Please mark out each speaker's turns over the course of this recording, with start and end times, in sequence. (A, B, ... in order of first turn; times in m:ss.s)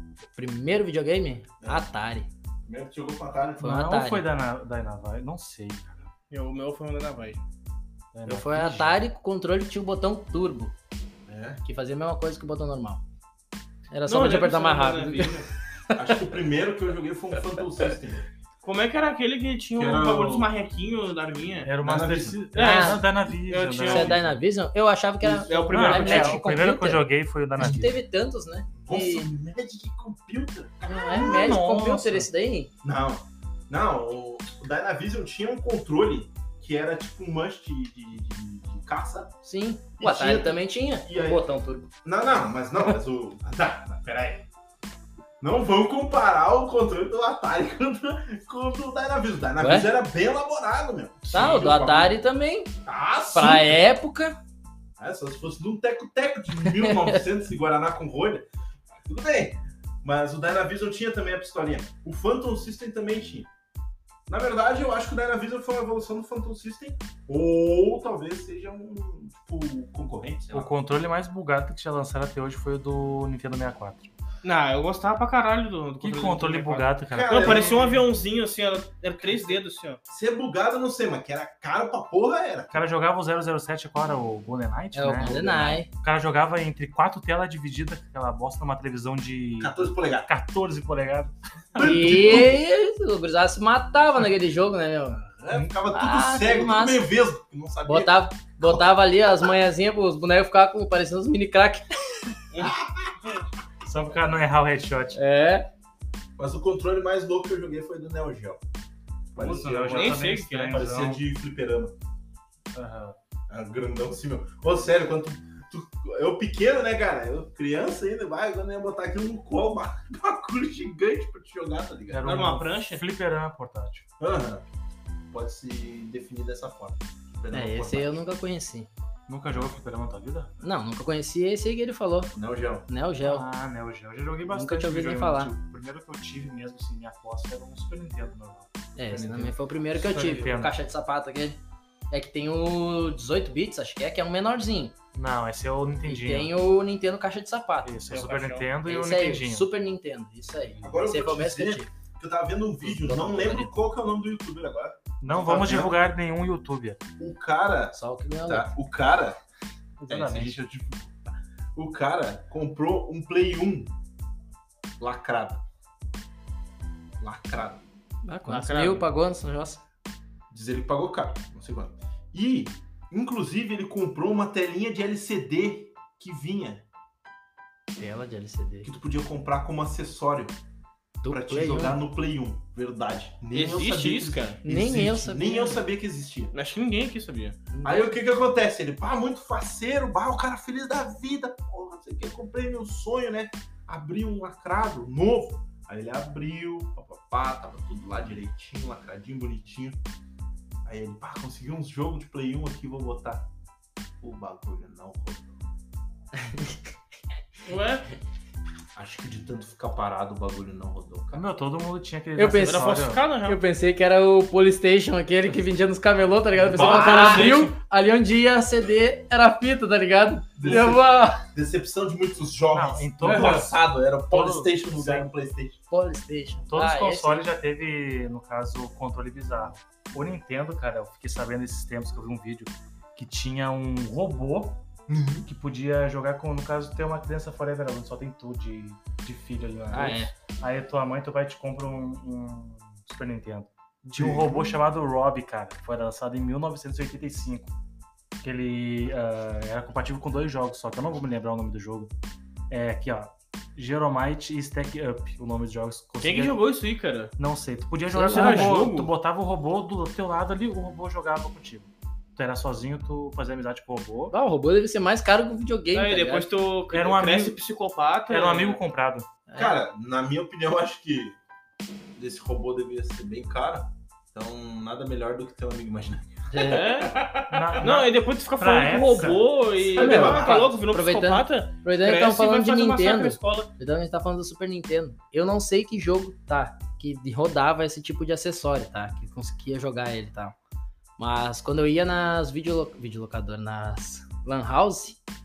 0:00.3-0:02.3 A
0:01.6-0:01.9 B
0:02.6-0:03.8 B
0:03.6-0:04.3 A
0:03.6-0:06.1 C
0:06.3-0:07.4 D
0:08.1-0:09.0 C
0:08.3-0:10.7 A
0:11.3-0:11.6 B
0:11.6-0:13.0 A
0:13.9-0:16.1 A
0:14.1-0:15.5 D
0:15.9-0:18.3 B
0:18.6-0:21.7 D
0:19.8-0:20.5 B
0:21.6-0:24.3 C
0:21.8-0:22.4 B
0:22.5-0:24.2 D
0:22.6-0:23.0 A
0:23.9-0:27.0 A
0:25.2-0:26.4 D
0:25.7-0:28.0 C
0:27.6-0:29.3 A
0:28.8-0:31.6 B
0:30.9-0:32.7 A
0:31.1-0:32.3 C
0:32.8-0:39.3 B
0:39.4-0:41.9 A
0:40.0-0:41.4 B
0:42.0-0:44.5 B
0:45.4-0:52.2 B
0:49.6-0:49.9 A
0:51.3-0:52.7 A
0:52.8-0:53.8 B
0:53.3-0:54.4 A
0:55.0-0:58.5 B
0:56.6-0:57.2 A
0:59.0-1:03.5 B
1:04.3-1:10.7 B
1:10.5-1:14.1 C
1:14.4-1:20.0 D
1:16.0-1:18.0 C
1:17.1-1:17.9 B
1:19.3-1:19.5 C
1:20.1-1:22.8 B
1:22.7-1:32.5 C
1:25.0-1:25.9 A
1:29.6-1:30.3 B
1:31.7-1:32.6 B
1:31.8-1:35.2 A
1:35.1-1:38.9 B
1:35.9-1:37.0 A
1:37.9-1:42.2 A
1:42.6-1:43.2 B
1:43.8-1:45.2 C
1:45.2-1:45.7 A
1:46.4-1:48.6 B
1:49.3-1:51.9 B
1:49.4-1:51.2 C
1:49.8-1:50.9 D
1:52.7-1:53.2 C
1:53.5-2:02.3 B
2:02.1-2:04.1 C
2:02.2-2:03.0 D
2:04.2-2:04.6 B
2:05.3-2:08.2 B
2:07.5-2:08.9 A
2:09.3-2:10.5 C
2:10.6-2:12.3 A
2:12.3-2:12.9 B
2:12.9-2:13.4 A
2:13.2-2:18.7 C
2:14.5-2:15.5 A
2:19.0-2:21.6 A
2:19.1-2:19.6 B
2:20.0-2:20.7 C
2:22.1-2:25.0 A
2:25.1-2:26.5 C
2:26.1-2:28.0 A
2:27.8-2:29.7 C
2:28.1-2:28.7 D
2:28.9-2:31.9 A
2:30.8-2:36.0 B
2:32.8-2:33.7 A
2:35.2-2:37.0 C
2:37.2-2:39.4 B
2:37.9-2:38.7 A
2:40.0-2:40.6 C
2:40.1-2:43.9 B
2:45.0-2:45.6 B
2:47.2-2:47.8 B
2:48.2-2:49.8 A
2:48.5-2:49.1 D
2:50.5-2:56.8 B
2:58.0-2:58.9 A
2:58.8-3:00.6 B
3:01.2-3:02.0 A
3:01.3-3:06.5 B
3:03.5-3:04.6 D
3:04.6-3:05.8 A
3:06.5-3:07.6 D
3:07.7-3:08.1 A
3:07.8-3:20.0 B
3:20.8-3:23.5 B
3:24.2-3:25.6 B
3:26.4-3:26.9 A
3:27.7-3:28.1 D
3:29.0-3:31.4 B
3:31.3-3:33.2 C
3:32.4-3:41.4 A
3:32.5-3:33.6 D
3:36.7-3:37.6 B
3:36.7-3:37.7 C
3:40.6-3:45.8 B
3:42.7-3:45.3 C
3:43.3-3:43.6 A
3:45.9-3:47.5 A
3:46.7-3:54.8 C
3:55.1-3:55.5 B
3:55.5-4:07.7 C
3:59.9-4:00.3 A
4:04.1-4:04.8 B
4:08.4-4:12.1 C
4:12.7-4:16.6 C
4:16.2-4:17.3 D
4:17.4-4:24.3 C
4:18.1-4:18.8 A
4:18.3-4:19.1 D
4:24.3-4:26.5 A
4:25.9-4:28.8 D
4:26.9-4:27.6 C
4:28.3-4:29.3 C
4:29.5-4:29.8 A
4:29.6-4:31.4 B
4:32.2-4:37.2 B
4:36.5-4:36.9 A
4:36.6-4:43.7 D
4:37.5-4:39.5 C
4:39.8-4:40.8 B
4:40.0-4:50.6 A
4:51.2-4:55.2 A